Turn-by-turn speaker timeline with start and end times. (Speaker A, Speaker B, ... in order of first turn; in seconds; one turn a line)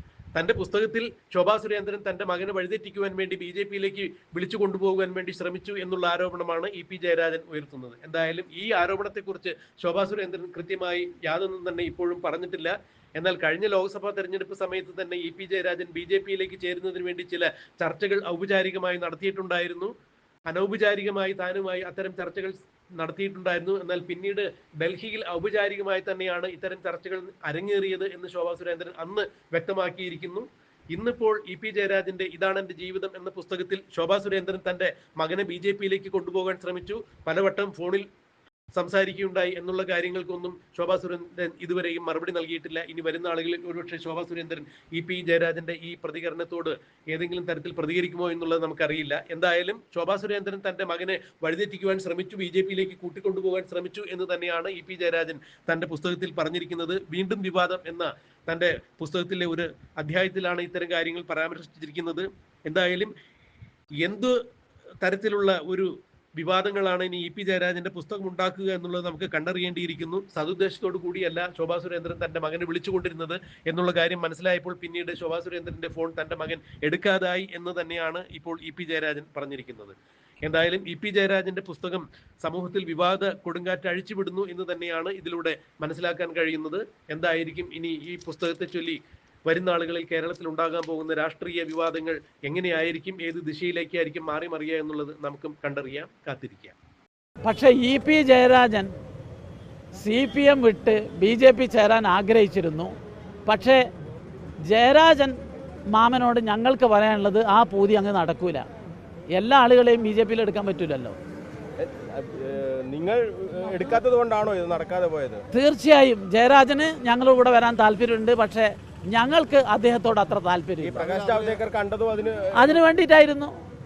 Speaker A: 0.3-19.9
Speaker A: 20.5-38.0
Speaker A: 38.7-63.1
Speaker A: 64.0-64.4
Speaker A: 65.0-96.7
Speaker B: 97.4-98.9
Speaker B: 100.0-102.9
Speaker B: 103.5-103.8
Speaker B: 104.7-105.4
Speaker B: 105.9-108.6
Speaker B: 109.3-111.2
Speaker C: 111.8-115.4
Speaker B: 115.5-121.1
Speaker C: 120.8-122.8
Speaker B: 122.5-123.5